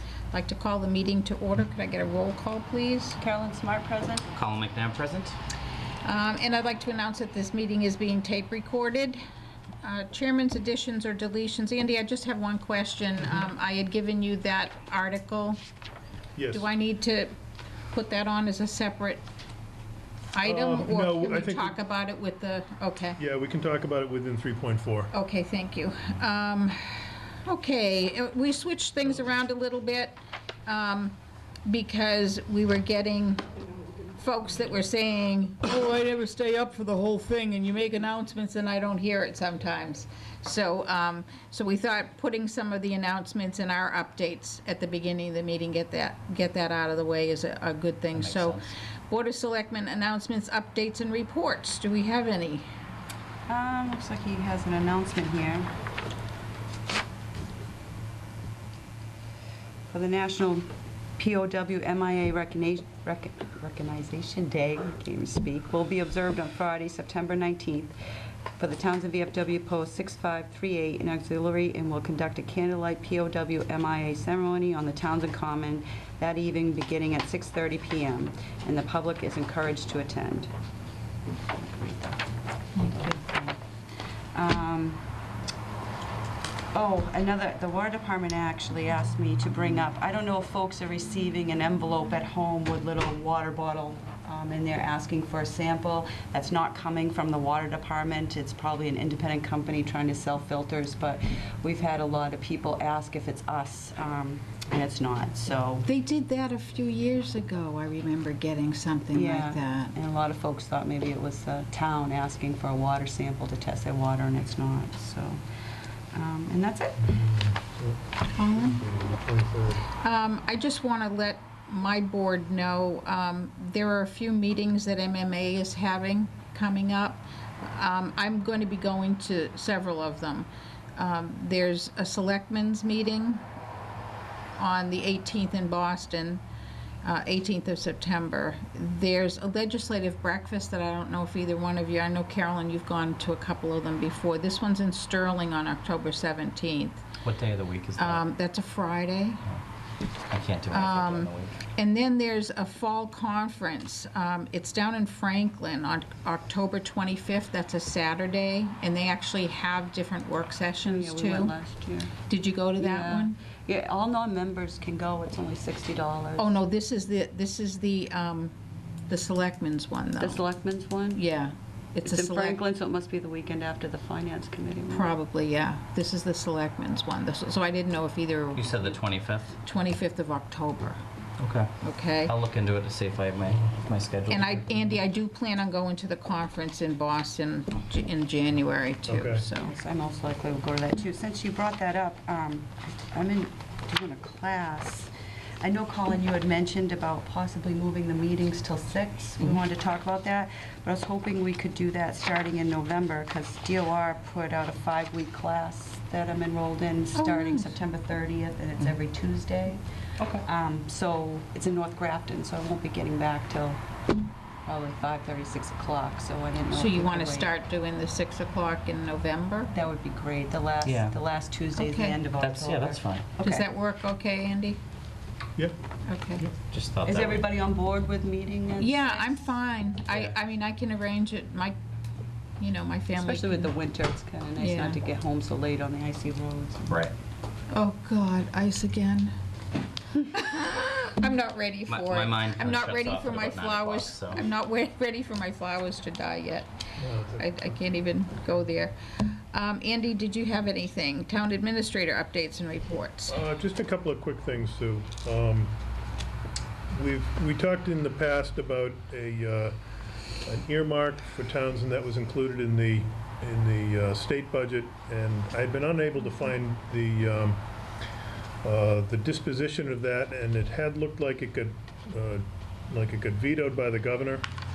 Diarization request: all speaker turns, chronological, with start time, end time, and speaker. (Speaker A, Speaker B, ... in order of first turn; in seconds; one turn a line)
Speaker A: 0.3-3.2
Speaker B: 3.2-4.3
Speaker C: 4.3-5.4
Speaker A: 6.0-9.2
Speaker A: 9.8-15.6
Speaker D: 16.4-16.7
Speaker A: 16.5-17.3
Speaker A: 17.9-19.2
Speaker A: 20.3-23.2
Speaker D: 20.4-21.8
Speaker D: 23.2-25.1
Speaker A: 25.1-31.1
Speaker A: 31.7-33.4
Speaker A: 34.1-52.7
Speaker C: 48.1-48.7
Speaker B: 53.5-55.7
Speaker B: 59.9-68.0
Speaker B: 68.6-80.5
Speaker B: 81.5-83.6
Speaker B: 84.3-85.0
Speaker B: 86.7-105.9
Speaker A: 105.8-110.0
Speaker B: 109.1-115.4
Speaker B: 116.1-117.1
Speaker D: 117.0-118.0
Speaker A: 118.3-118.8
Speaker D: 118.5-119.9
Speaker A: 120.0-133.4
Speaker A: 134.6-136.4
Speaker A: 137.0-147.1
Speaker C: 147.2-148.3
Speaker A: 148.0-149.4
Speaker C: 150.2-151.6
Speaker A: 150.7-161.5
Speaker B: 160.9-162.1
Speaker A: 162.3-163.4
Speaker B: 162.8-166.6
Speaker A: 166.4-168.5
Speaker A: 169.1-170.4
Speaker B: 170.2-171.2
Speaker A: 171.1-172.6
Speaker B: 172.0-175.2
Speaker A: 174.9-179.0
Speaker C: 178.6-179.6
Speaker A: 179.6-181.0
Speaker C: 181.4-181.7
Speaker A: 181.8-182.3
Speaker C: 182.3-184.7
Speaker A: 184.3-189.7
Speaker D: 189.1-189.4
Speaker B: 189.6-213.8
Speaker A: 207.2-207.7
Speaker C: 210.2-210.4
Speaker B: 214.7-217.6
Speaker A: 216.7-219.7
Speaker B: 219.7-223.7
Speaker C: 220.8-221.2
Speaker A: 221.8-222.2
Speaker C: 222.4-223.2
Speaker A: 223.4-224.8
Speaker A: 226.1-226.5
Speaker C: 226.7-227.5
Speaker B: 227.0-229.5
Speaker A: 228.8-231.8
Speaker A: 232.6-233.7
Speaker B: 233.2-237.1
Speaker A: 234.6-235.0
Speaker A: 237.7-239.3
Speaker A: 240.2-246.7
Speaker C: 241.9-244.4
Speaker D: 247.0-247.6
Speaker A: 247.4-253.4
Speaker D: 253.3-255.8
Speaker D: 256.9-259.8
Speaker D: 260.4-267.6
Speaker D: 268.6-274.5